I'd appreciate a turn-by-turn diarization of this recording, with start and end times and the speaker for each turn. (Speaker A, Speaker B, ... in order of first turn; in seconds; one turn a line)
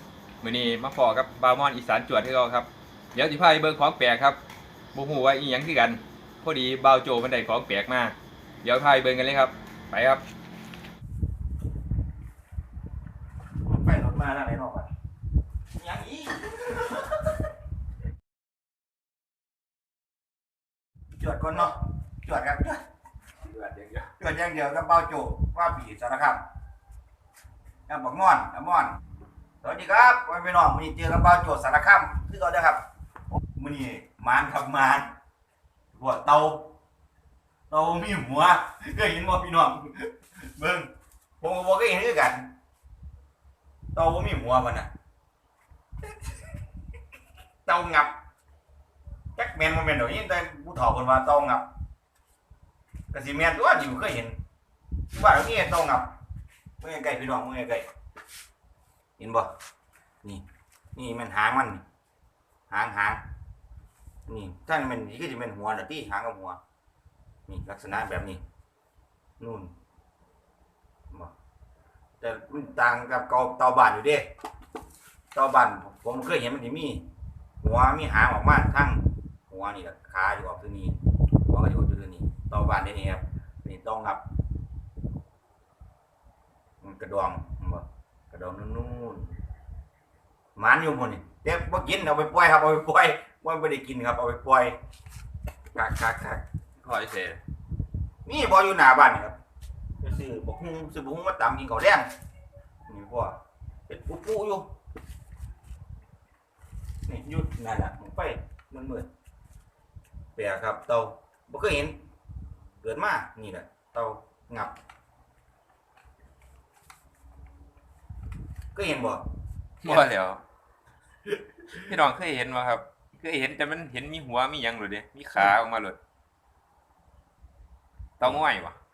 Speaker A: 0.4-4.4
Speaker A: 4.9-10.2
Speaker B: 13.6-14.9
Speaker B: 15.7-17.3
Speaker B: 21.2-22.8
Speaker A: 23.5-24.1
Speaker B: 24.2-26.4
Speaker B: 27.9-29.0
Speaker B: 29.6-32.8
Speaker B: 33.5-35.1
Speaker B: 35.9-36.7
Speaker B: 37.7-42.5
Speaker B: 43.9-44.9
Speaker B: 47.6-48.1
Speaker B: 49.4-51.7
Speaker B: 53.1-54.4
Speaker B: 55.1-56.1
Speaker B: 56.8-57.9
Speaker B: 59.2-59.5
Speaker B: 60.2-61.8
Speaker B: 62.7-63.2
Speaker B: 64.3-66.6
Speaker B: 67.5-68.4
Speaker B: 69.4-69.7
Speaker B: 72.2-74.3
Speaker B: 75.3-77.1
Speaker B: 77.6-84.2
Speaker B: 86.8-89.3
Speaker B: 90.5-94.8
Speaker B: 95.7-96.4
Speaker A: 96.8-97.4
Speaker B: 98.2-99.4
Speaker B: 100.0-102.1
Speaker B: 102.9-103.4
Speaker B: 103.9-104.7
Speaker B: 107.0-109.1
Speaker B: 110.3-112.0
Speaker B: 112.8-114.7
Speaker B: 118.7-119.2
Speaker A: 119.8-120.4
Speaker A: 121.7-126.0
Speaker A: 128.2-128.8